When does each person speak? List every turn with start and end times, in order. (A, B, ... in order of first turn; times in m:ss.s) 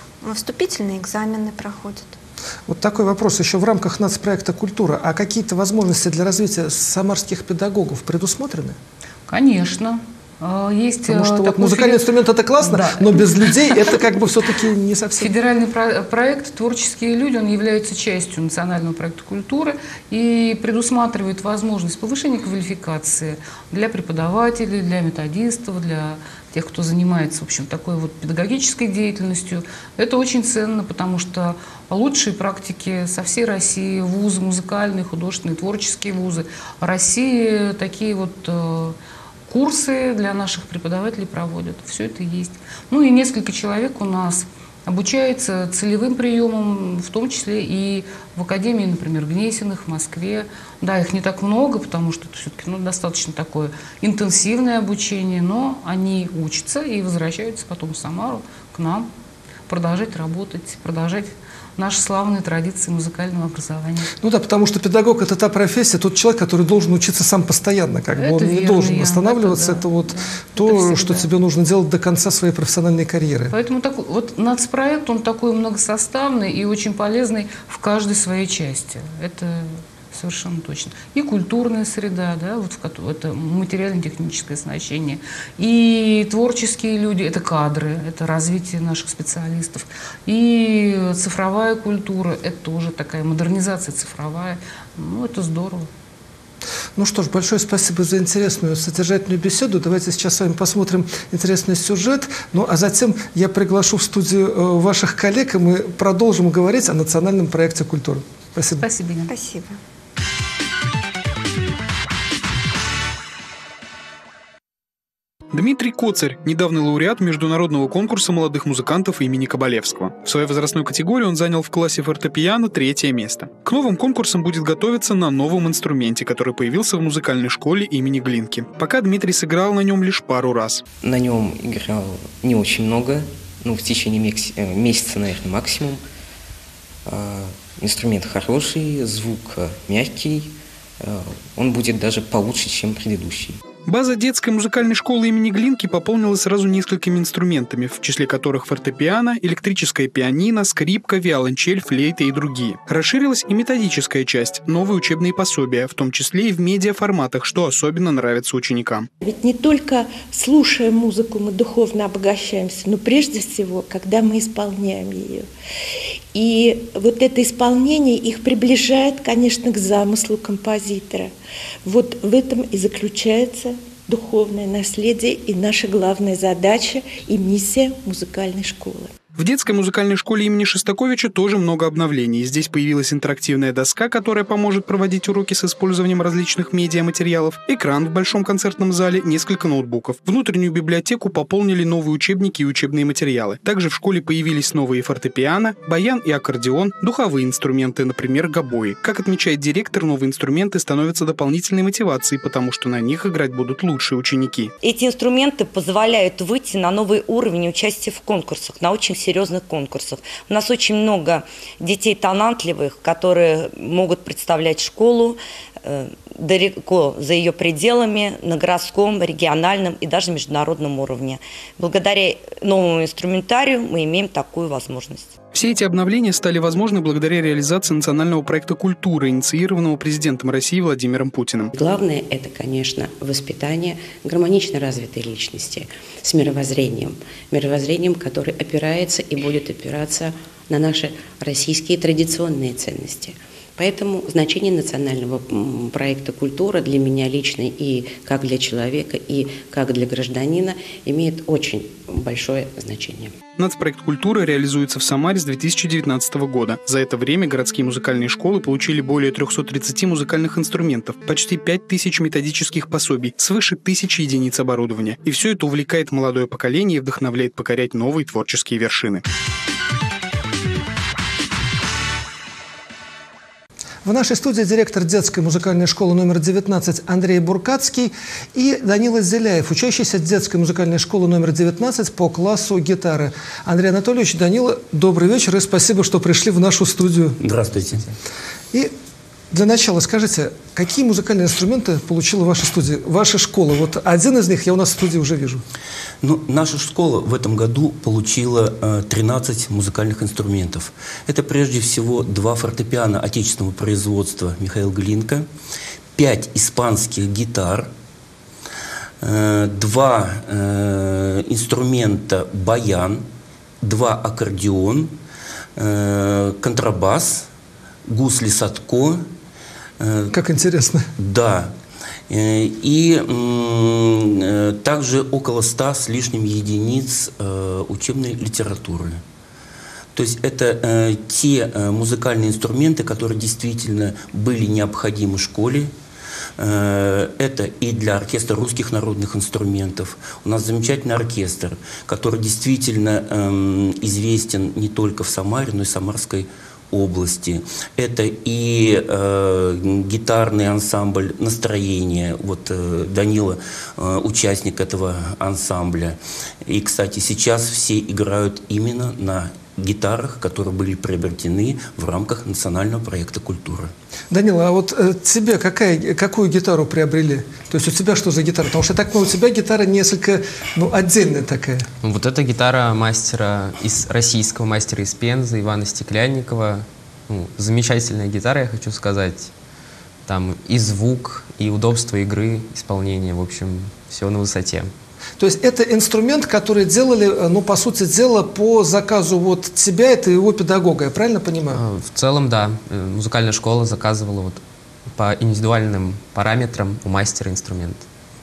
0:00.2-0:02.1 A
0:02.7-0:08.8 B
0:09.3-0:12.0 C
0:11.0-0:15.3 B
0:12.6-0:14.0 C
0:15.2-0:39.0 C
0:39.5-0:59.1 C
0:59.7-1:04.1 C
1:04.2-1:13.5 B
1:08.2-1:11.3 C
1:13.5-1:35.9 C
1:37.0-1:48.8 B
1:48.8-1:49.3 C
1:49.3-1:49.8 A
1:55.5-2:10.8 D
2:11.0-2:16.0 E
2:17.0-2:23.6 E
2:23.8-2:39.1 D
2:39.2-2:45.5 F
2:46.3-2:51.3 F
2:51.8-2:59.1 F
2:59.4-3:24.7 D
3:24.8-3:45.4 G
3:45.5-3:51.7 D
3:51.8-4:13.4 H
4:13.6-4:29.2 D
4:34.0-4:47.4 B
4:47.4-4:48.1 I
4:49.5-4:55.6 B
4:56.2-5:05.4 I
5:06.2-5:07.9 I
5:09.2-5:13.2 I
5:13.8-5:15.1 I
5:15.8-5:17.5 I
5:18.0-5:19.2 I
5:20.0-5:20.4 I
5:20.3-5:21.1 B
5:21.2-5:21.7 I
5:22.3-5:29.2 I
5:30.1-5:35.9 I
5:36.6-6:03.9 I
6:04.3-6:11.9 B
6:12.0-6:19.5 J
6:20.2-6:24.9 J
6:25.4-6:31.8 B
6:31.7-6:34.6 J
6:35.1-6:38.0 J